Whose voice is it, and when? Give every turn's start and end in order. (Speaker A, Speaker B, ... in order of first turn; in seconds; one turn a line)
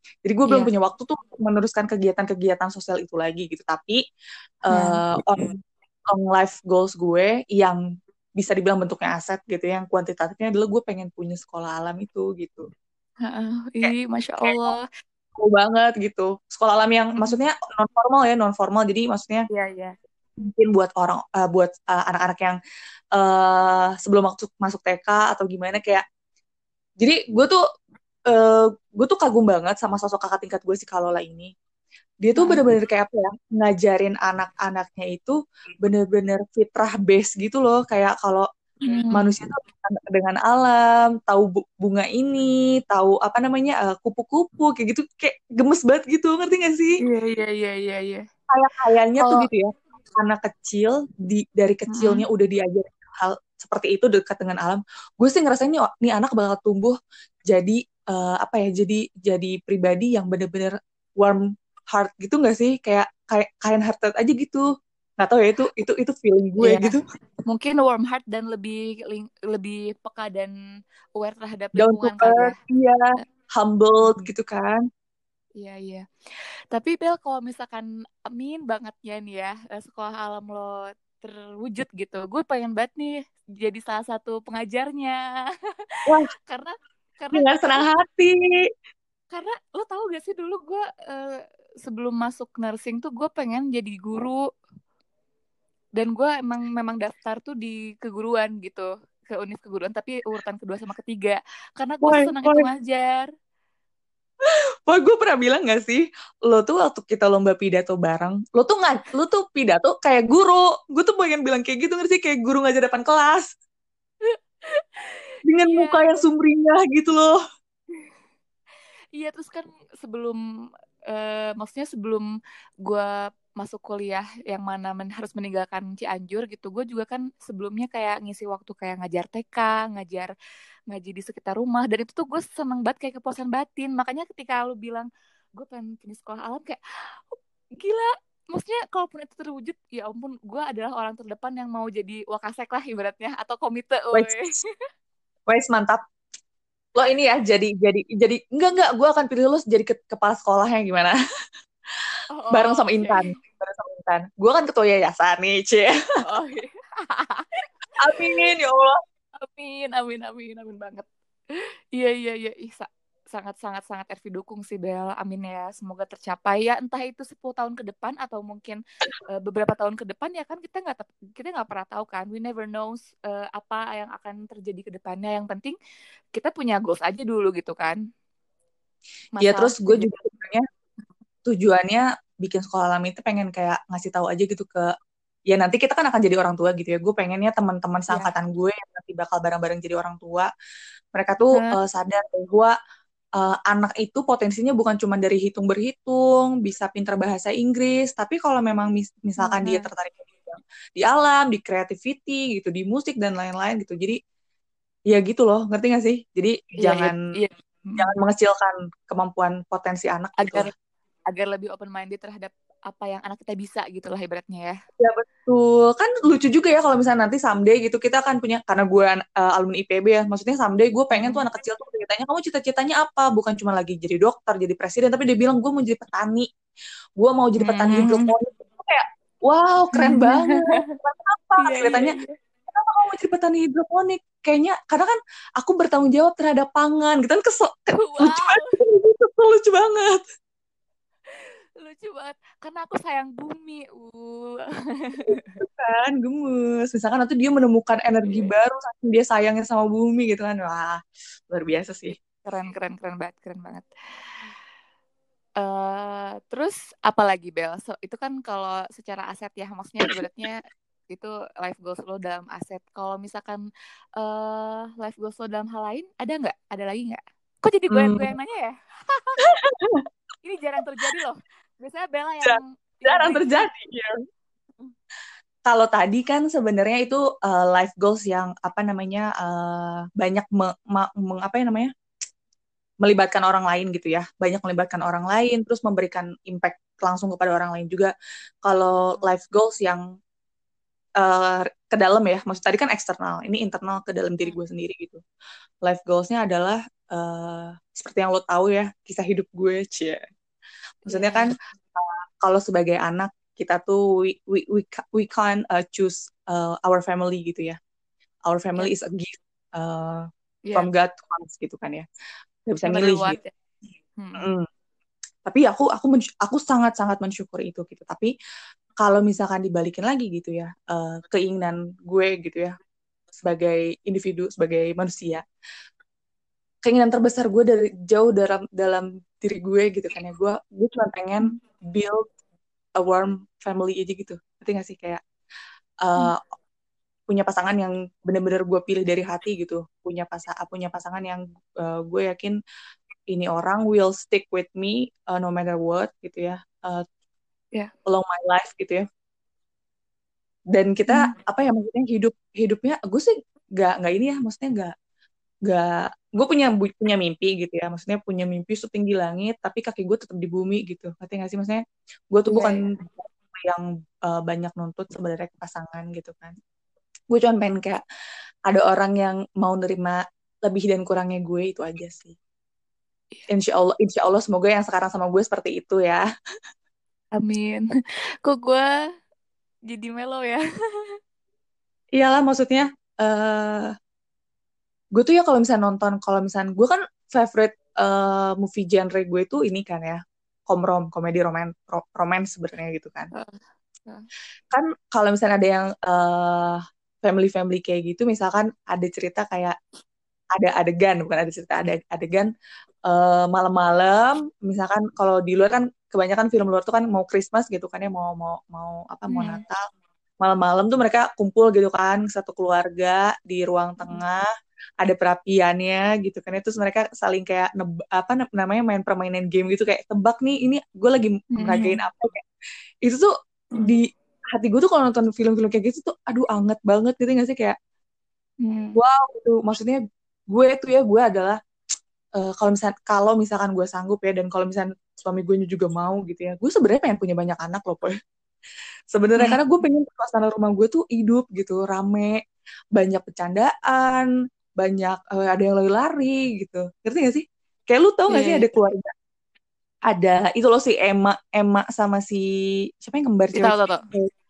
Speaker A: 0.2-4.0
Speaker A: 4.7-7.8
Speaker B: 4.7-5.0
Speaker A: 8.4-12.7
Speaker B: 13.2-14.8
Speaker A: 13.8-14.8
Speaker A: 15.3-19.5
Speaker B: 19.5-20.0
Speaker A: 20.4-22.6
Speaker A: 23.1-26.0
Speaker A: 27.0-27.6
Speaker A: 28.3-31.5
Speaker A: 32.2-38.5
Speaker B: 32.4-32.7
Speaker B: 38.9-39.4
Speaker A: 39.1-47.0
Speaker B: 47.0-48.2
Speaker A: 48.5-67.0
Speaker B: 49.2-49.5
Speaker B: 51.9-52.3
Speaker B: 66.6-67.0
Speaker B: 67.5-70.5
Speaker B: 71.2-72.5
Speaker A: 71.8-74.8
Speaker B: 74.0-74.3
Speaker B: 75.6-85.2
Speaker B: 86.0-87.8
Speaker A: 87.3-88.4
Speaker B: 89.3-94.4
Speaker B: 96.0-103.3
Speaker A: 102.0-102.7
Speaker A: 104.4-113.5
Speaker B: 114.3-116.2
Speaker A: 115.5-117.3
Speaker B: 119.2-120.4
Speaker B: 121.1-122.3
Speaker B: 122.8-130.3
Speaker B: 130.9-136.8
Speaker B: 137.3-144.6
Speaker A: 144.1-144.4
Speaker A: 145.5-146.0
Speaker A: 146.9-151.2
Speaker B: 152.3-153.3
Speaker A: 152.5-156.0
Speaker B: 156.2-157.7
Speaker A: 158.0-159.0
Speaker B: 159.4-175.8
Speaker B: 176.3-178.0
Speaker B: 179.4-180.1
Speaker A: 179.4-180.7
Speaker A: 181.4-184.9
Speaker A: 185.5-190.5
Speaker A: 191.2-192.7
Speaker B: 191.5-191.8
Speaker A: 193.4-204.2
Speaker B: 199.4-199.9
Speaker A: 205.1-207.2
Speaker B: 206.8-208.1
Speaker A: 208.0-210.7
Speaker B: 210.4-210.7
Speaker B: 211.3-214.8
Speaker A: 215.0-226.5
Speaker B: 221.1-221.5
Speaker A: 227.2-232.2
Speaker B: 227.6-228.3
Speaker B: 229.9-230.9
Speaker B: 231.6-232.3
Speaker A: 232.7-240.2
Speaker B: 237.9-238.8
Speaker B: 241.3-245.6
Speaker A: 245.2-251.0
Speaker B: 248.2-248.5
Speaker A: 251.5-252.2
Speaker B: 252.4-253.9
Speaker B: 255.6-263.7
Speaker B: 264.2-269.6
Speaker A: 267.9-268.3
Speaker A: 269.6-270.0
Speaker B: 270.4-273.7
Speaker A: 272.4-274.1
Speaker A: 275.7-281.9
Speaker A: 283.0-288.1
Speaker A: 288.6-290.0
Speaker A: 291.2-295.2
Speaker A: 295.9-300.2
Speaker B: 301.1-301.5
Speaker A: 301.1-307.8
Speaker A: 308.5-310.2
Speaker A: 310.8-312.1
Speaker A: 312.7-313.4
Speaker B: 312.8-313.5
Speaker B: 314.2-314.5
Speaker A: 314.4-314.7
Speaker A: 315.4-318.3
Speaker A: 319.0-322.8
Speaker A: 323.4-325.4
Speaker A: 326.9-332.2
Speaker A: 333.0-335.2
Speaker A: 336.0-336.4
Speaker A: 337.3-342.6
Speaker A: 343.3-347.1
Speaker A: 348.1-349.0
Speaker A: 350.7-354.9
Speaker B: 351.1-351.3
Speaker A: 355.7-366.6
Speaker B: 362.5-362.8
Speaker A: 367.3-368.0
Speaker A: 368.7-372.4
Speaker A: 373.5-376.2
Speaker B: 377.4-377.9
Speaker B: 378.4-378.9
Speaker B: 379.9-381.2
Speaker A: 382.2-383.9
Speaker A: 385.1-393.3
Speaker B: 393.3-394.3
Speaker A: 394.7-399.8
Speaker A: 400.6-402.5
Speaker A: 403.1-409.8
Speaker B: 409.3-409.6
Speaker A: 410.4-414.4
Speaker A: 415.0-422.4
Speaker B: 421.6-422.0
Speaker A: 423.1-427.8
Speaker B: 428.6-429.0
Speaker A: 428.9-430.0
Speaker A: 430.5-431.6
Speaker A: 432.4-438.1
Speaker A: 439.1-442.4
Speaker A: 442.9-449.1
Speaker B: 448.3-448.7
Speaker A: 450.1-452.5
Speaker A: 453.0-454.3
Speaker B: 453.5-454.1